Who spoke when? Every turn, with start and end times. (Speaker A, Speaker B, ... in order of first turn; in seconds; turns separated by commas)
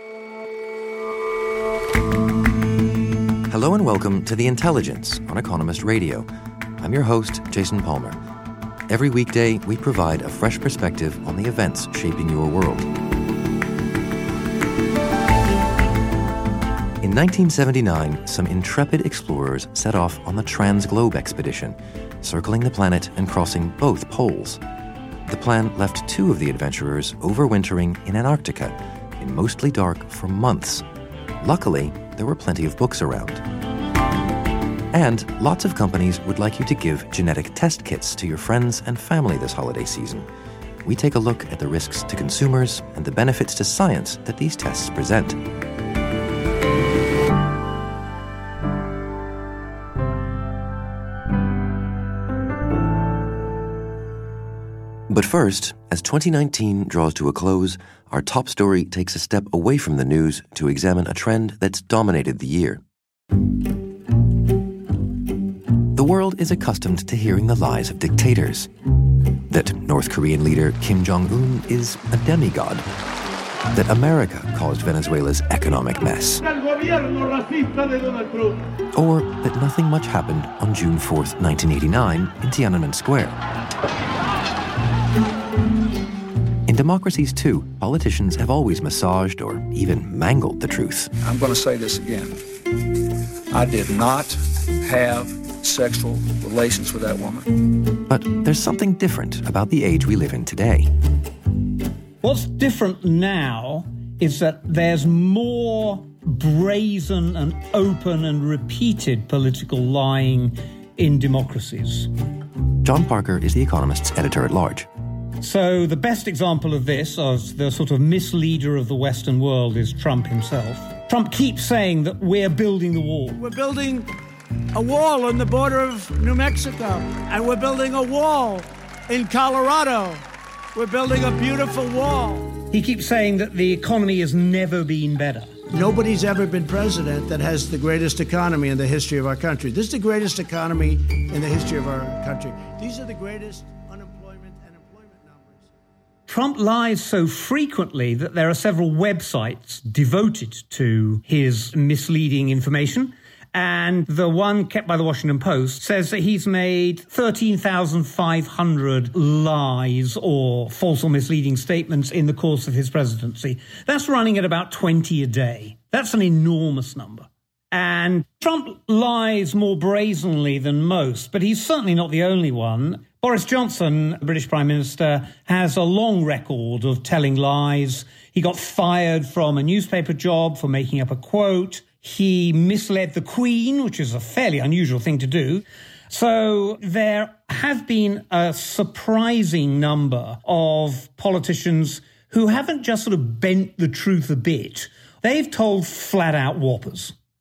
Speaker A: 3.5-6.3, Speaker A: 6.8-8.2, Speaker A: 8.9-12.9, Speaker A: 17.0-24.6, Speaker A: 25.3-30.9, Speaker A: 31.4-33.4, Speaker A: 34.9-40.3, Speaker A: 40.8-45.4, Speaker A: 55.1-62.8, Speaker A: 65.9-68.7, Speaker A: 69.5-72.8, Speaker A: 73.7-76.4, Speaker A: 78.0-83.4, Speaker A: 86.7-91.1, Speaker B: 91.2-92.4, Speaker B: 93.5-97.5, Speaker A: 98.1-100.9, Speaker C: 102.2-112.1, Speaker A: 112.8-114.9, Speaker C: 115.4-123.4, Speaker D: 123.4-124.1, Speaker D: 124.7-130.2, Speaker D: 130.8-132.5, Speaker C: 132.7-135.6, Speaker D: 135.7-145.7, Speaker C: 146.3-197.1